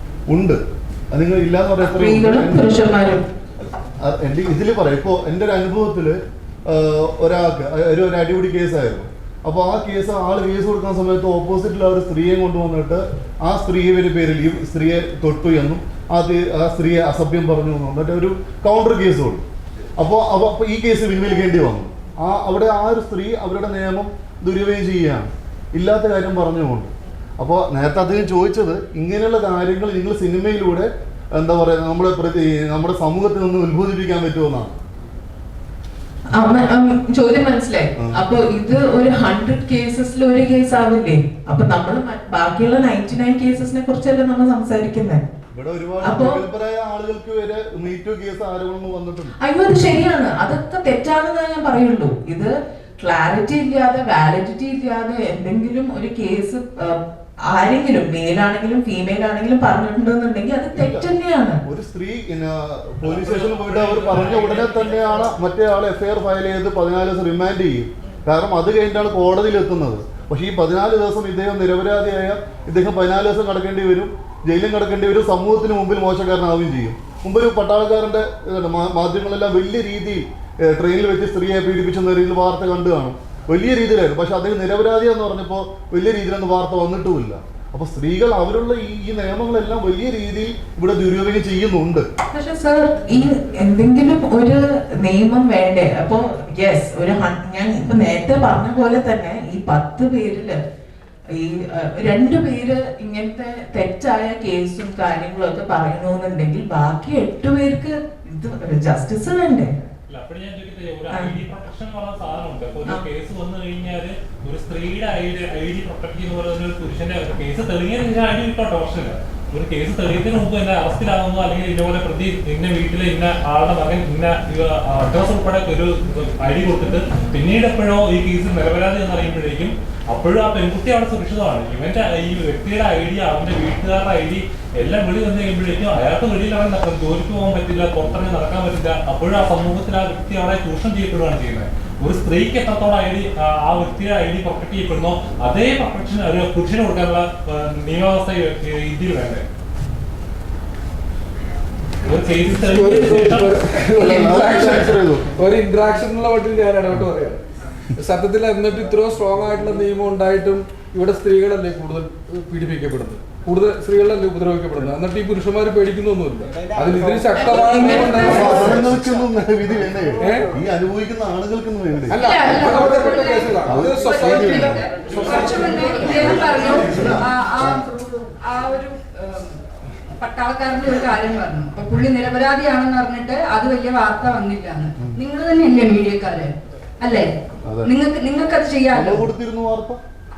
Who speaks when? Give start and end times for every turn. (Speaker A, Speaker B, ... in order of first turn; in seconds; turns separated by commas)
Speaker A: 0.3-0.6, Speaker A: 1.1-2.7, Speaker B: 1.8-3.2, Speaker A: 3.6-19.4, Speaker A: 20.0-34.8, Speaker B: 36.3-45.2, Speaker A: 45.5-49.4, Speaker B: 46.0-46.4, Speaker B: 49.4-61.6, Speaker A: 60.8-61.1, Speaker A: 61.7-92.0, Speaker C: 63.0-65.4, Speaker B: 92.3-100.6, Speaker B: 101.3-109.7, Speaker C: 110.1-149.4, Speaker B: 111.1-111.4, Speaker C: 152.1-153.7, Speaker D: 152.7-157.4, Speaker A: 154.0-155.3, Speaker D: 158.0-168.9, Speaker B: 167.5-168.8, Speaker A: 168.2-172.2, Speaker D: 170.2-170.5, Speaker D: 172.1-176.4, Speaker E: 172.3-179.6, Speaker A: 173.6-174.8, Speaker A: 176.4-177.8, Speaker E: 180.2-187.3, Speaker A: 187.7-187.9, Speaker E: 187.8-189.2, Speaker A: 188.9-190.0